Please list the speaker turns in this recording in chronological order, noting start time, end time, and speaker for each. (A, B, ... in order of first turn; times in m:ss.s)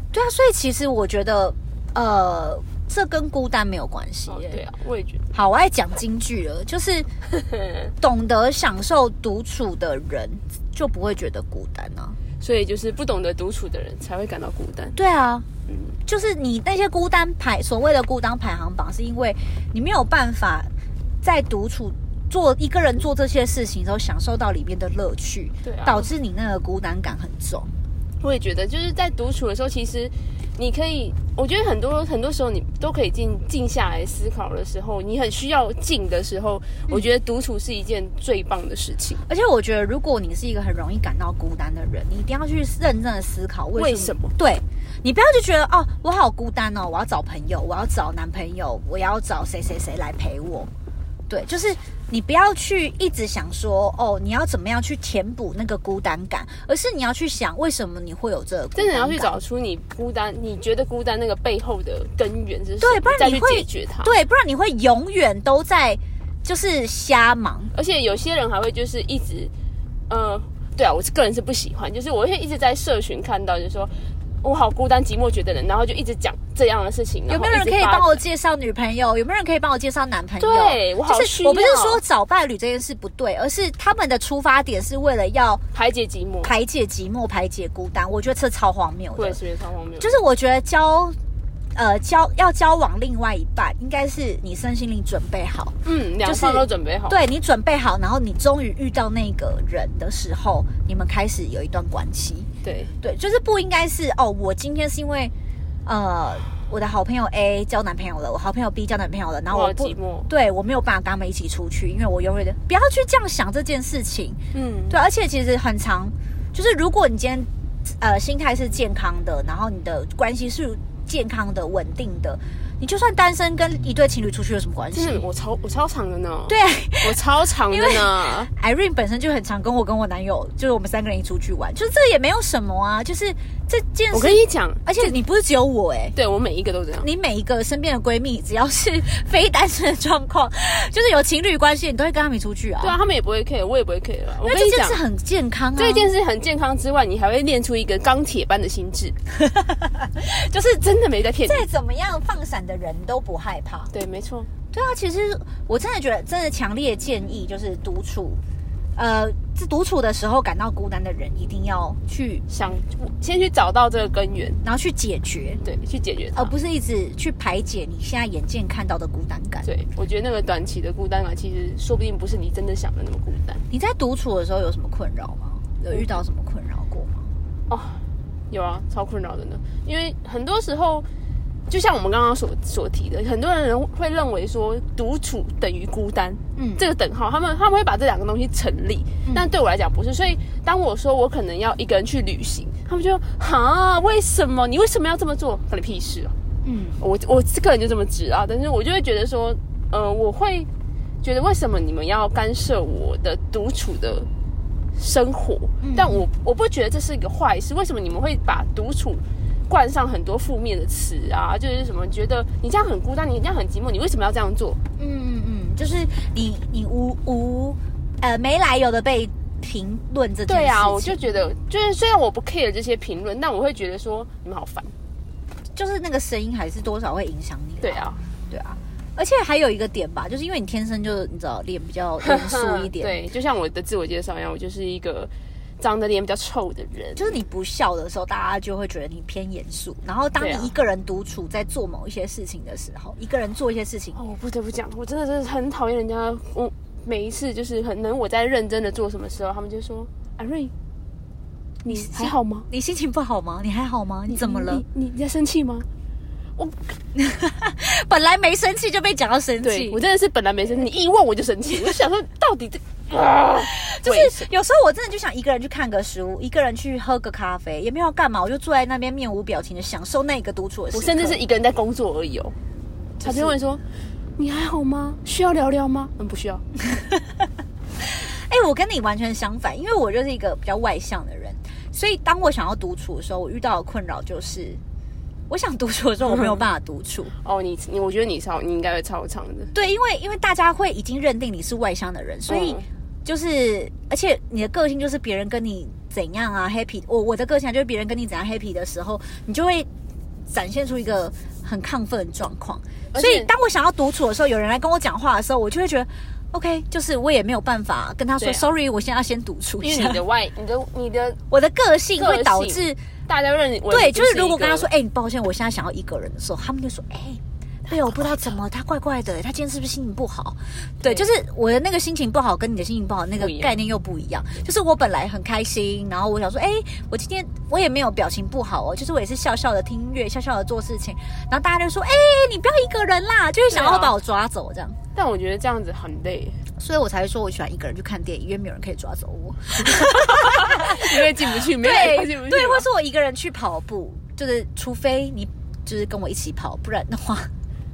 0:00.1-0:04.6 A
0:04.3-0:05.2 B
0:05.3-0:07.1 A
0:08.0-0:12.2 A
0:12.4-0:15.0 B
0:15.0-0:15.5 A
0:15.7-0:16.0 B
0:16.1-0:20.7 A
0:21.2-0:27.7 A
0:25.6-0:26.1 B
0:28.2-0:39.2 B
0:39.3-0:50.7 A
0:43.8-0:44.4 B
0:51.3-0:59.4 A
0:58.8-1:04.2 B
1:02.8-1:07.7 A
1:07.7-1:09.5 B
1:10.1-1:13.9 B
1:14.4-1:18.2 B
1:17.3-1:25.6 A
1:20.4-1:22.0 B
1:25.7-1:26.5 B
1:26.4-1:29.4 A
1:29.2-1:30.2 B
1:30.0-1:31.2 A
1:31.8-1:42.5 A
1:35.8-1:37.2 B
1:42.6-1:42.9 B
1:43.0-1:45.3 A
1:45.8-2:05.2 A
1:49.5-1:50.3 B
1:54.5-1:55.0 B
2:04.9-2:08.5 B
2:06.5-2:07.2 A
2:07.7-2:16.2 A
2:14.1-2:15.1 B
2:16.2-2:17.1 B
2:17.0-2:23.0 A
2:22.8-2:25.0 B
2:24.5-2:26.1 A
2:25.8-2:29.2 B
2:29.3-2:30.8 A
2:30.8-2:31.6 B
2:31.5-2:33.9 A
2:33.9-2:34.5 B
2:34.7-2:38.4 A
2:39.0-2:42.4 A
2:42.5-2:44.6 B
2:44.6-2:45.6 A
2:45.6-2:46.5 B
2:46.4-2:49.7 A
2:49.6-2:53.6 B
2:53.7-2:57.3 A
2:57.7-3:01.1 B
3:01.7-3:16.4 B
3:06.6-3:06.8 A
3:16.6-3:17.0 A
3:17.0-3:20.7 B
3:21.2-3:24.3 B
3:25.0-3:34.8 B
3:25.8-3:26.2 A
3:35.0-3:41.3 A
3:40.5-3:44.9 B
3:45.7-3:53.2 A
3:47.8-3:48.2 B
3:52.2-3:57.4 B
3:57.2-4:04.2 A
4:00.4-4:00.7 B
4:04.2-4:10.7 B
4:11.8-4:12.7 B
4:11.9-4:14.8 A
4:14.3-4:15.9 B
4:17.1-4:20.0 A
4:19.6-4:24.5 B
4:23.7-4:31.4 A
4:30.9-4:32.6 B
4:33.2-4:33.8 B
4:33.2-4:33.6 A
4:34.4-4:36.6 B
4:36.9-4:37.4 A
4:38.0-4:44.8 A
4:45.5-4:47.3 A
4:46.2-4:46.6 B
4:47.4-4:49.7 B
4:49.7-4:59.9 A
4:52.5-4:52.9 B
5:00.5-5:10.2 A
5:03.1-5:03.5 B
5:08.4-5:08.7 B
5:09.8-5:11.4 B
5:11.5-5:13.0 A
5:12.2-5:14.9 B
5:13.9-5:35.0 A
5:17.8-5:18.5 B
5:21.0-5:21.3 B
5:23.4-5:23.8 B
5:33.7-5:34.2 B
5:35.2-5:36.6 B
5:36.8-5:47.5 A
5:39.8-5:42.8 B